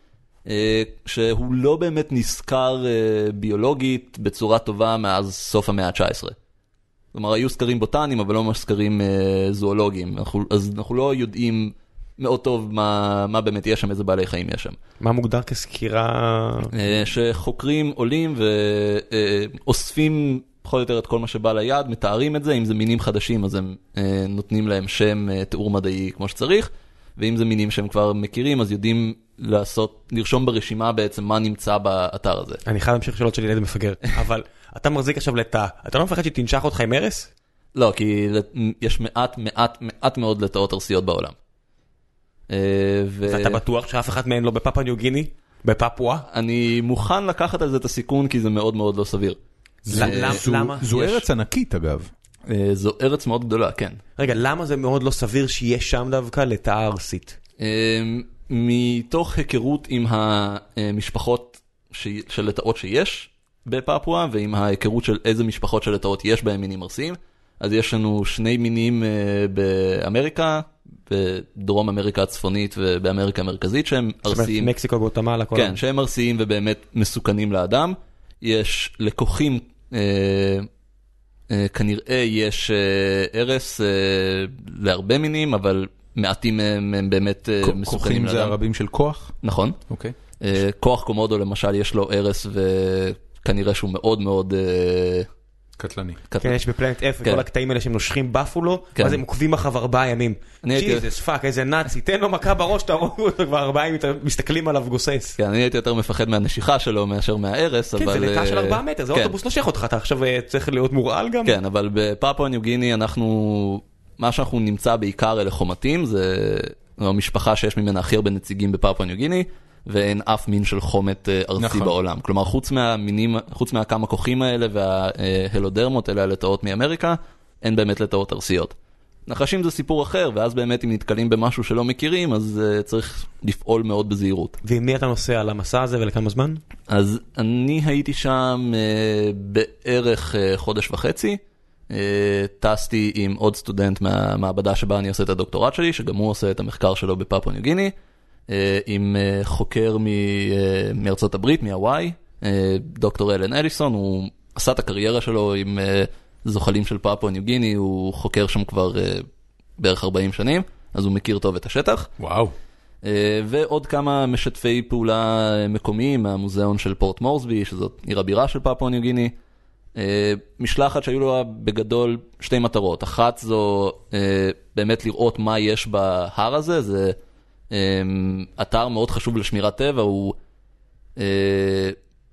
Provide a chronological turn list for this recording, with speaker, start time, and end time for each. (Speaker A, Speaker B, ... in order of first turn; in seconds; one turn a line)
Speaker A: 0.5-6.3
Speaker A: 7.1-14.8
Speaker B: 15.0-16.7
Speaker A: 16.7-32.6
Speaker B: 32.6-37.3
Speaker A: 37.7-41.4
Speaker A: 42.5-43.6
Speaker B: 43.3-46.2
Speaker A: 46.3-49.4
Speaker C: 49.9-52.1
Speaker B: 49.9-51.2
Speaker A: 50.0-50.4
Speaker A: 52.5-54.0
Speaker B: 54.2-57.4
Speaker A: 57.6-74.7
Speaker B: 74.3-75.8
Speaker A: 75.5-80.7
Speaker A: 81.5-88.6
Speaker C: 87.6-89.3
Speaker A: 89.4-89.8
Speaker C: 89.9-90.1
Speaker A: 90.4-95.3
Speaker C: 95.8-96.2
Speaker A: 96.3-96.6
Speaker B: 96.4-105.4
Speaker A: 100.6-101.1
Speaker A: 105.4-109.3
Speaker B: 107.9-111.6
Speaker A: 111.4-128.7
Speaker C: 121.6-121.9
Speaker A: 129.3-134.6
Speaker B: 134.6-136.6
Speaker A: 136.9-147.9
Speaker A: 148.5-159.2
Speaker A: 159.8-162.1
Speaker C: 162.2-162.5
Speaker A: 163.0-169.3
Speaker A: 169.9-177.2
Speaker A: 177.7-180.4
Speaker A: 181.2-181.9